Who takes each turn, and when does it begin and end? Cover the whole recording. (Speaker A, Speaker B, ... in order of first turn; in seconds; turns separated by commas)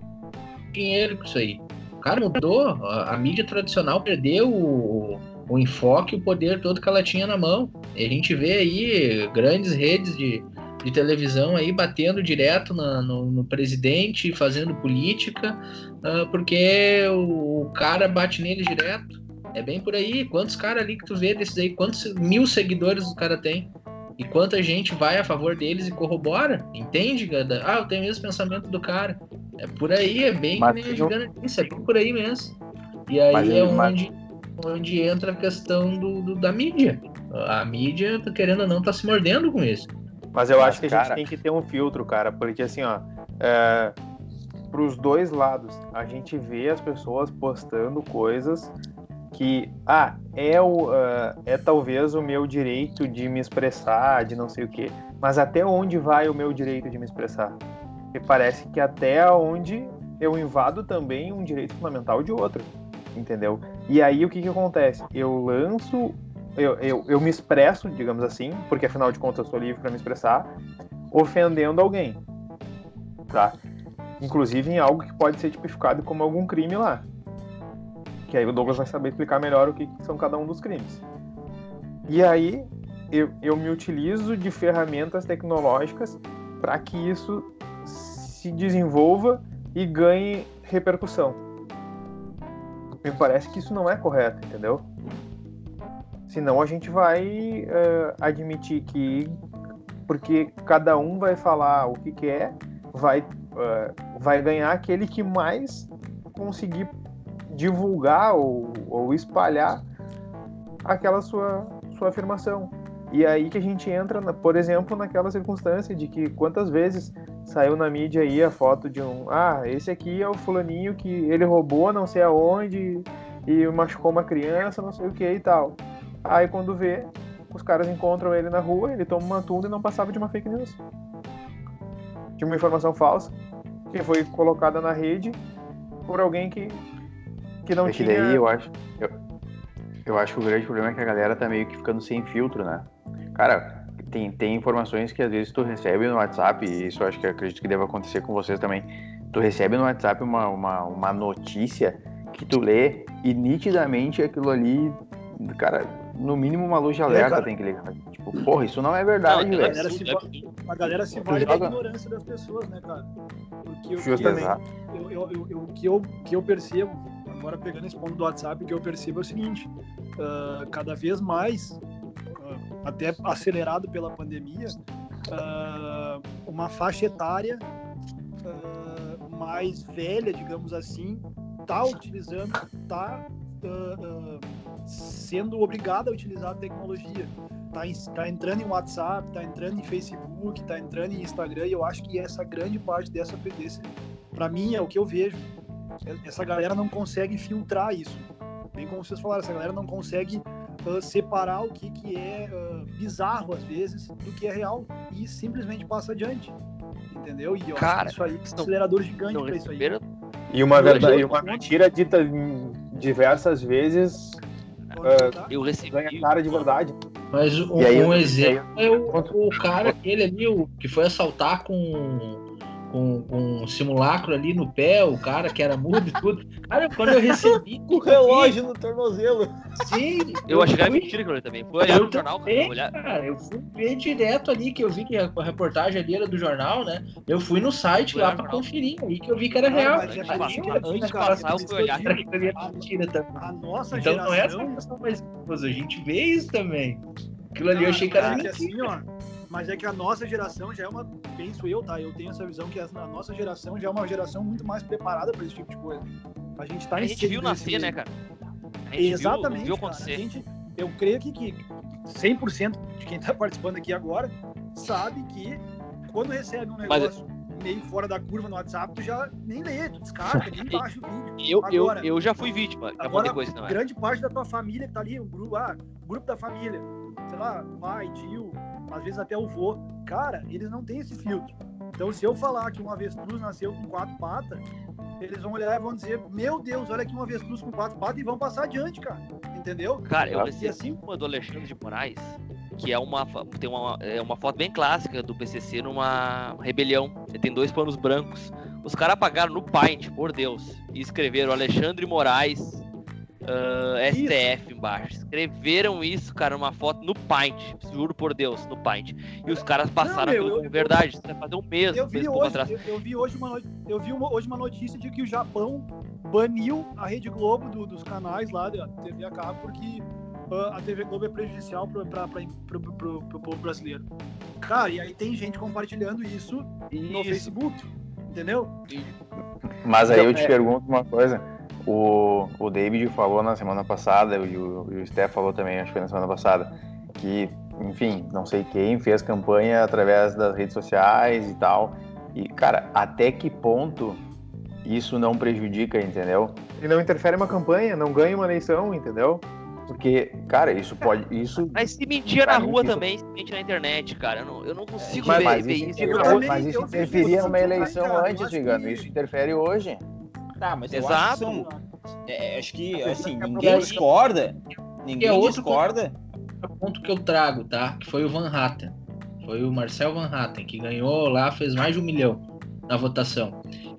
Speaker A: 0.7-32.6, Speaker B: 30.5-31.1, Speaker A: 33.1-39.9, Speaker B: 33.3-34.0, Speaker C: 40.3-44.0, Speaker B: 40.6-41.2, Speaker C: 44.7-48.7, Speaker C: 49.3-57.6, Speaker C: 58.1-70.5, Speaker C: 71.1-72.2, Speaker C: 73.3-73.6, Speaker C: 74.2-77.0, Speaker C: 78.3-81.0, Speaker C: 82.1-91.4, Speaker C: 93.0-94.9, Speaker C: 96.3-99.4, Speaker C: 100.1-106.9, Speaker C: 107.5-109.8, Speaker C: 110.8-130.8, Speaker C: 132.4-133.3, Speaker C: 133.9-135.4, Speaker C: 136.1-136.8, Speaker C: 137.7-138.4, Speaker B: 137.8-139.2, Speaker B: 140.1-159.8, Speaker D: 157.1-157.5, Speaker E: 159.2-161.3, Speaker D: 159.4-163.1, Speaker B: 161.3-161.8, Speaker D: 163.6-171.8, Speaker C: 164.0-164.5, Speaker B: 164.2-164.6, Speaker D: 172.4-174.8, Speaker D: 175.3-177.6, Speaker D: 178.4-195.5, Speaker D: 196.1-206.5, Speaker D: 207.1-209.9, Speaker E: 207.7-210.0, Speaker C: 210.5-214.4, Speaker D: 210.7-211.7, Speaker E: 210.8-211.4, Speaker E: 214.9-216.8, Speaker D: 214.9-215.5, Speaker C: 215.0-215.3, Speaker C: 215.9-216.9, Speaker A: 217.3-228.6, Speaker B: 217.8-219.9, Speaker F: 227.3-229.6, Speaker A: 229.8-231.1, Speaker E: 230.5-232.9, Speaker A: 231.8-247.0, Speaker E: 238.1-238.7, Speaker D: 239.7-244.8, Speaker E: 239.7-242.2, Speaker A: 247.5-248.9, Speaker D: 247.7-258.0, Speaker E: 248.1-248.5, Speaker E: 256.9-258.1, Speaker E: 258.9-260.2, Speaker D: 259.0-272.1, Speaker E: 266.9-267.1, Speaker E: 271.4-273.8, Speaker D: 273.0-284.6, Speaker D: 285.2-291.0, Speaker E: 290.0-302.8, Speaker E: 303.4-312.8, Speaker D: 304.1-304.4, Speaker D: 309.4-310.9, Speaker D: 311.9-324.1, Speaker D: 324.6-329.0, Speaker A: 326.9-327.5, Speaker B: 329.8-344.2, Speaker B: 344.8-346.6, Speaker C: 346.8-349.4, Speaker B: 349.9-353.1, Speaker E: 351.7-356.4, Speaker F: 355.0-355.6, Speaker B: 355.2-360.0, Speaker C: 355.4-357.9, Speaker D: 356.0-359.1, Speaker F: 360.6-361.7, Speaker E: 360.9-361.6, Speaker D: 361.3-361.8, Speaker F: 362.2-366.1, Speaker C: 363.2-363.9, Speaker A: 363.6-364.0, Speaker A: 365.2-365.9, Speaker A: 366.6-373.6